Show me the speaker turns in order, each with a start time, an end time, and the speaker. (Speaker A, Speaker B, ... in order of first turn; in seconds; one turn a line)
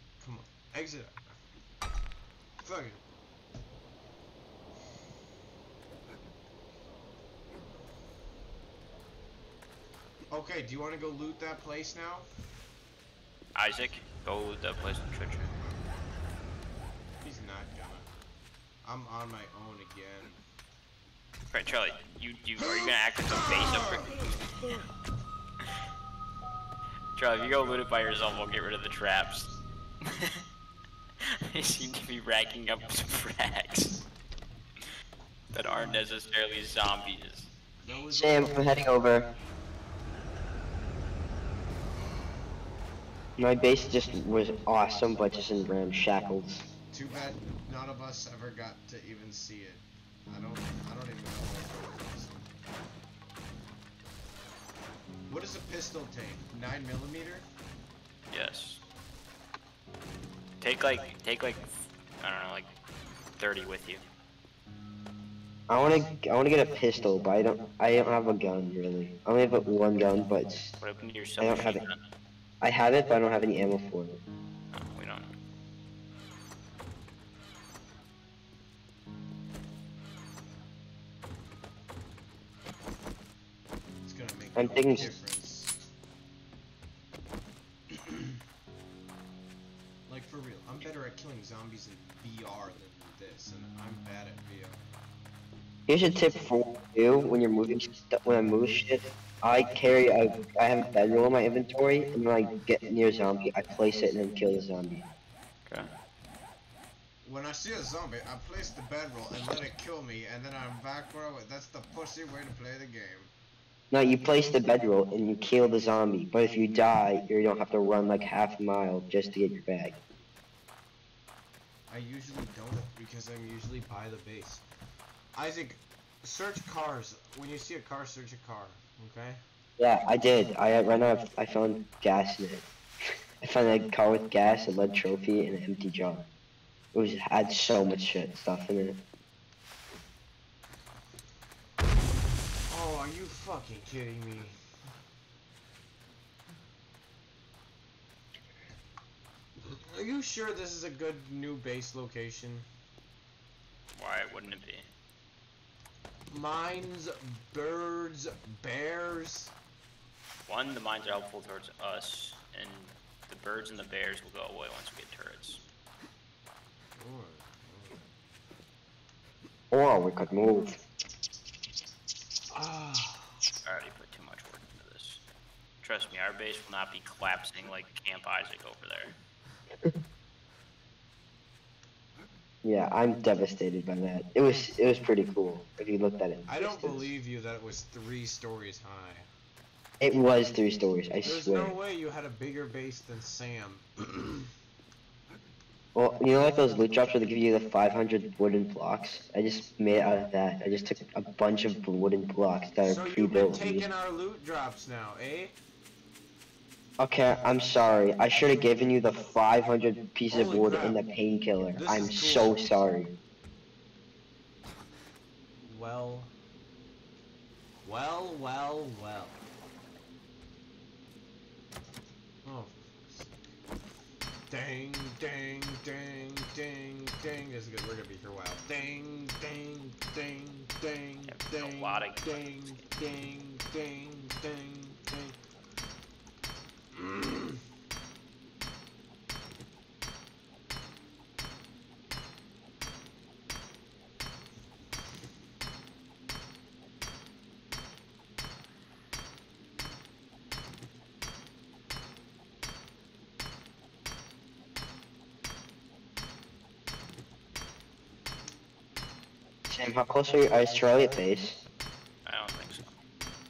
Speaker A: 0.2-1.3
Speaker A: 2.6-3.0
Speaker A: 10.3-12.3
Speaker B: 13.5-15.7
Speaker A: 17.2-18.1
Speaker A: 18.8-20.4
Speaker B: 21.5-24.4
Speaker A: 23.3-24.0
Speaker B: 27.1-29.5
Speaker A: 27.4-27.9
Speaker B: 30.0-30.4
Speaker B: 31.2-34.0
Speaker B: 35.5-37.5
Speaker A: 35.6-36.0
Speaker A: 37.8-38.8
Speaker C: 38.1-39.3
Speaker C: 43.4-46.6
Speaker A: 46.9-52.6
Speaker A: 55.3-57.4
Speaker B: 58.3-58.8
Speaker B: 60.6-62.7
Speaker B: 63.4-64.0
Speaker C: 65.7-70.7
Speaker B: 70.8-72.0
Speaker C: 71.4-71.8
Speaker C: 72.6-74.2
Speaker B: 74.7-75.3
Speaker A: 84.0-85.7
Speaker C: 84.5-85.1
Speaker A: 87.9-88.4
Speaker A: 90.1-94.8
Speaker C: 95.9-105.0
Speaker A: 107.2-113.3
Speaker C: 113.9-120.0
Speaker A: 121.9-124.6
Speaker A: 125.3-129.4
Speaker C: 129.8-132.7
Speaker C: 133.4-136.3
Speaker C: 136.9-139.0
Speaker A: 142.7-144.6
Speaker A: 149.6-152.7
Speaker B: 153.9-154.9
Speaker A: 156.3-159.5
Speaker B: 160.5-165.6
Speaker A: 166.9-168.0
Speaker C: 169.7-170.8
Speaker A: 172.5-173.3
Speaker B: 173.6-175.2
Speaker B: 175.8-179.1
Speaker C: 182.6-187.1
Speaker A: 186.5-189.3
Speaker C: 190.0-191.7
Speaker A: 191.2-194.5
Speaker C: 195.9-203.9
Speaker A: 202.8-205.6
Speaker C: 207.0-213.1
Speaker A: 210.3-211.0
Speaker A: 211.7-212.6
Speaker A: 215.6-216.3
Speaker A: 217.8-219.4
Speaker A: 222.4-223.4
Speaker A: 224.5-235.4
Speaker B: 231.3-232.8
Speaker A: 236.9-237.6
Speaker C: 259.7-261.6
Speaker B: 262.2-262.9